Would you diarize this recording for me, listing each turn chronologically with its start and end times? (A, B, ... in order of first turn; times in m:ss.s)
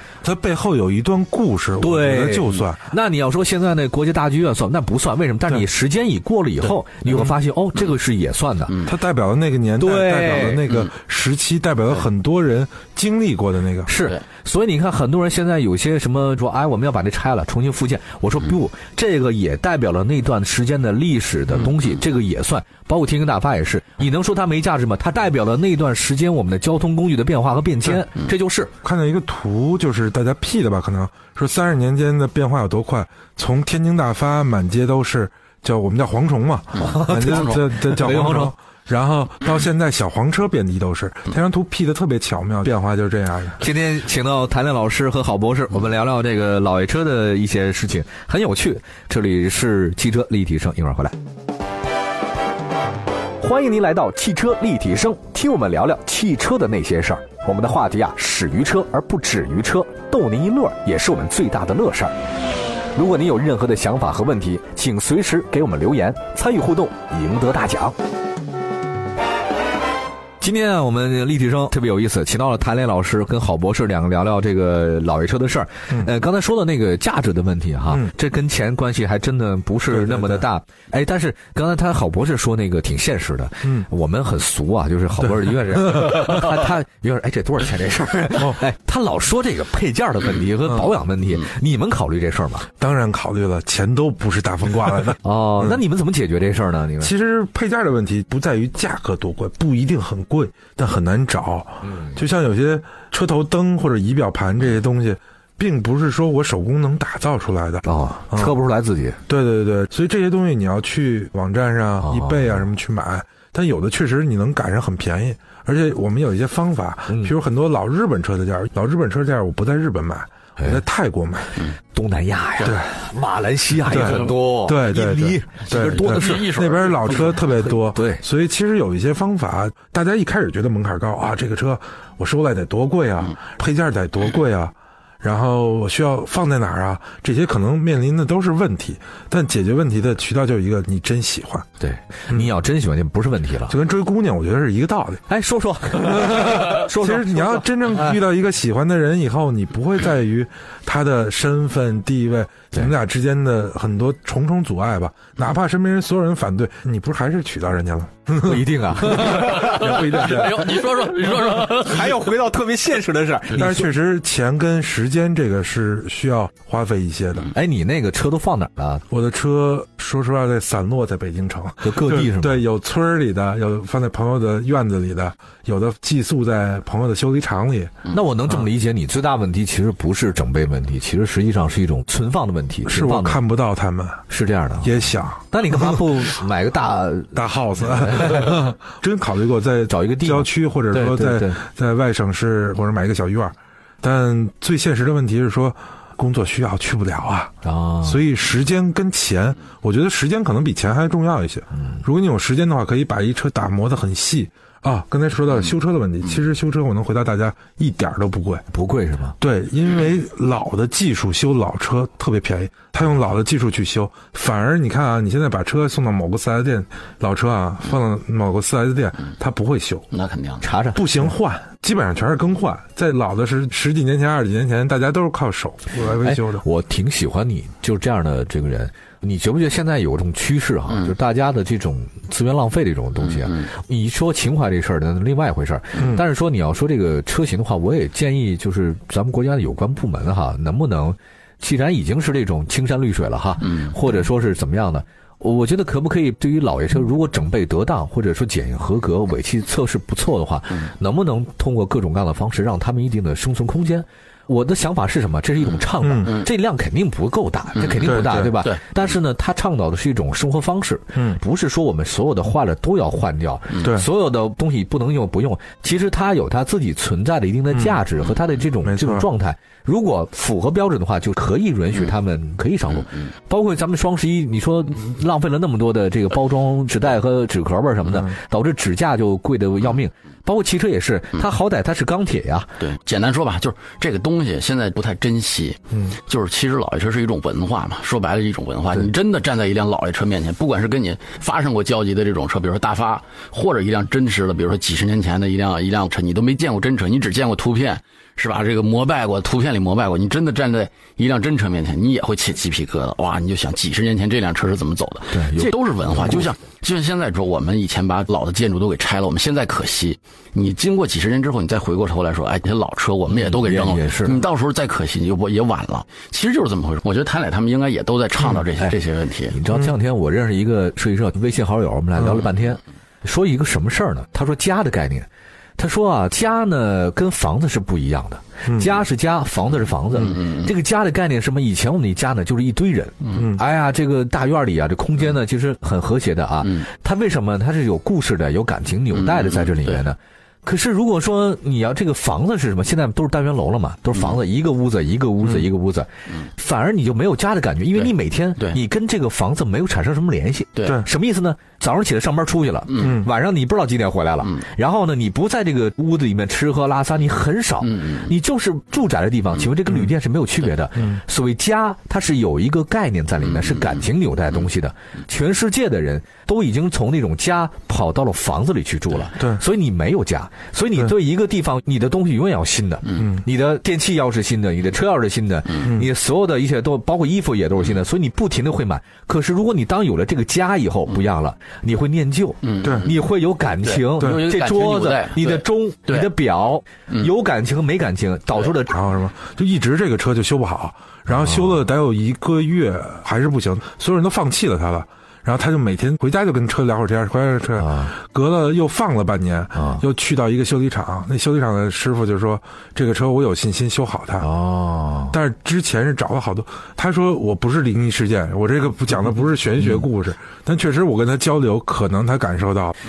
0:00.2-0:02.9 A
0:01.8-0:08.8 B
0:08.8-0:13.9 A
0:09.8-0:10.7 B
0:13.9-0:28.7 B
0:28.8-0:43.6 A
0:36.8-0:37.6 C
0:36.8-0:38.5 B
0:43.6-0:51.2 B
0:53.4-1:02.1 B
1:02.9-1:08.0 B
1:10.4-1:32.7 B
1:19.9-1:20.5 A
1:23.6-1:23.9 A
1:25.2-1:26.3 A
1:32.8-1:35.8 A
1:35.2-1:37.1 B
1:37.0-1:48.6 A
1:41.8-1:42.2 B
1:47.8-1:49.2 B
1:49.3-2:01.6 A
1:52.0-1:52.6 B
1:57.1-1:57.3 B
2:01.9-2:06.6 B
2:03.9-2:21.7 A
2:04.0-2:04.3 C
2:05.6-2:07.5 C
2:07.5-2:08.2 B
2:21.8-2:23.8 B
2:23.7-2:25.2 A
2:25.3-2:28.2 B
2:26.0-2:40.5 A
2:38.4-2:43.9 B
2:39.2-2:42.2 C
2:43.5-2:47.5 A
2:47.5-2:49.0 B
2:49.1-2:58.0 A
2:51.8-2:52.6 B
2:58.1-3:03.4 B
3:02.9-3:04.2 A
3:04.3-3:08.7 B
3:04.8-3:06.3 A
3:07.3-3:17.5 A
3:09.9-3:11.6 B
3:17.6-3:18.2 B
3:18.0-3:28.6 A
3:21.7-3:22.0 B
3:28.7-3:29.4 B
3:29.4-3:40.1 A
3:40.1-3:40.6 C
3:40.6-3:41.3 B
3:41.0-3:46.6 A
3:46.2-4:42.8 B
3:53.2-3:53.7 C
3:56.0-3:56.2 A
4:16.0-4:16.4 A
4:17.8-4:18.8 C
4:18.1-4:18.5 A
4:21.2-4:21.4 A
4:27.7-4:28.0 A
4:28.8-4:29.3 A
4:42.8-5:19.6 C
5:05.3-5:06.5 B
5:13.3-5:14.4 B
5:19.5-5:25.3 B
5:22.2-5:22.5 A
5:25.8-6:29.0 B
5:28.7-5:29.0 A
5:30.2-5:30.7 C
5:33.4-5:33.6 A
5:39.1-5:40.0 C
5:47.9-5:48.8 C
5:50.8-5:51.0 C
5:52.9-5:53.2 C
5:53.0-5:53.3 A
5:57.8-5:58.3 C
6:03.5-6:04.0 C
6:13.2-6:13.5 A
6:22.6-6:23.1 C
6:22.8-6:23.1 A
6:23.8-6:26.3 C
6:28.9-6:44.5 A
6:31.4-6:31.7 B
6:37.8-6:38.1 B
6:39.8-6:40.0 B
6:44.4-6:45.4 B
6:45.3-6:53.0 A
6:49.8-6:50.1 B